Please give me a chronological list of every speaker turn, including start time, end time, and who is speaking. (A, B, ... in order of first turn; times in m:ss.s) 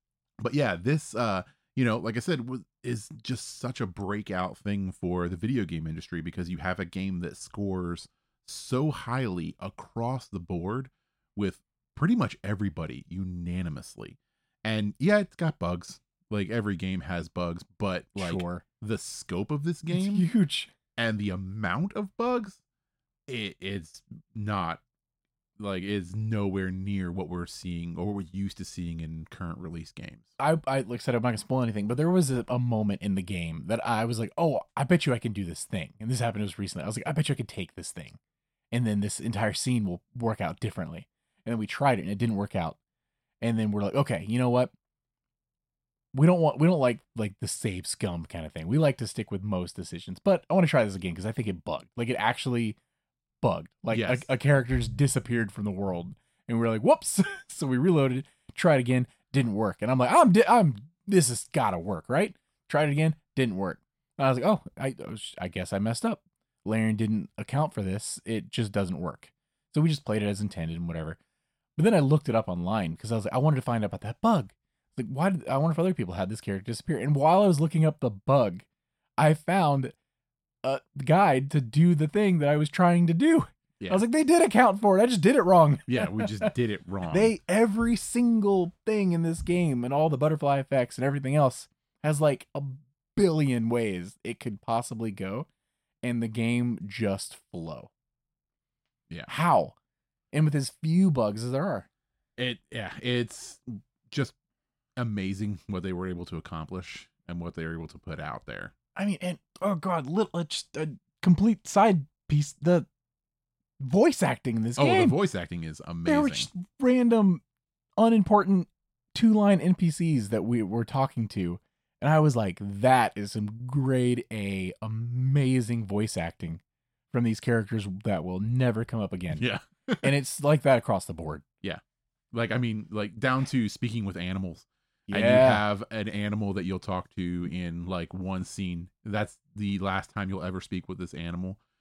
0:00.4-0:20.2 A
0:18.2-0:18.6 B
0:19.9-0:20.7 B
0:21.0-0:22.6 A
0:23.3-0:24.8 A
0:25.6-0:30.3 A
0:30.4-0:38.2 B
0:38.7-0:42.8 B
0:43.4-0:44.7 B
0:46.1-0:52.8 B
0:53.4-1:11.2 B
0:53.9-0:54.3 A
1:11.8-1:18.6 B
1:19.2-1:19.9 B
1:20.6-1:26.5 B
1:25.9-1:27.3 A
1:27.1-1:35.5 B
1:36.0-1:37.9 B
1:39.3-1:39.8 B
1:40.3-1:41.9 B
1:42.4-1:44.3 A
1:45.0-1:48.7 A
1:48.9-1:52.9 B
1:53.8-1:55.2 B
1:54.8-1:56.5 A
1:56.0-1:57.4 B
1:58.0-2:09.4 B
2:09.3-2:10.1 A
2:10.0-2:11.4 B
2:12.3-2:21.6 A
2:15.1-2:15.6 B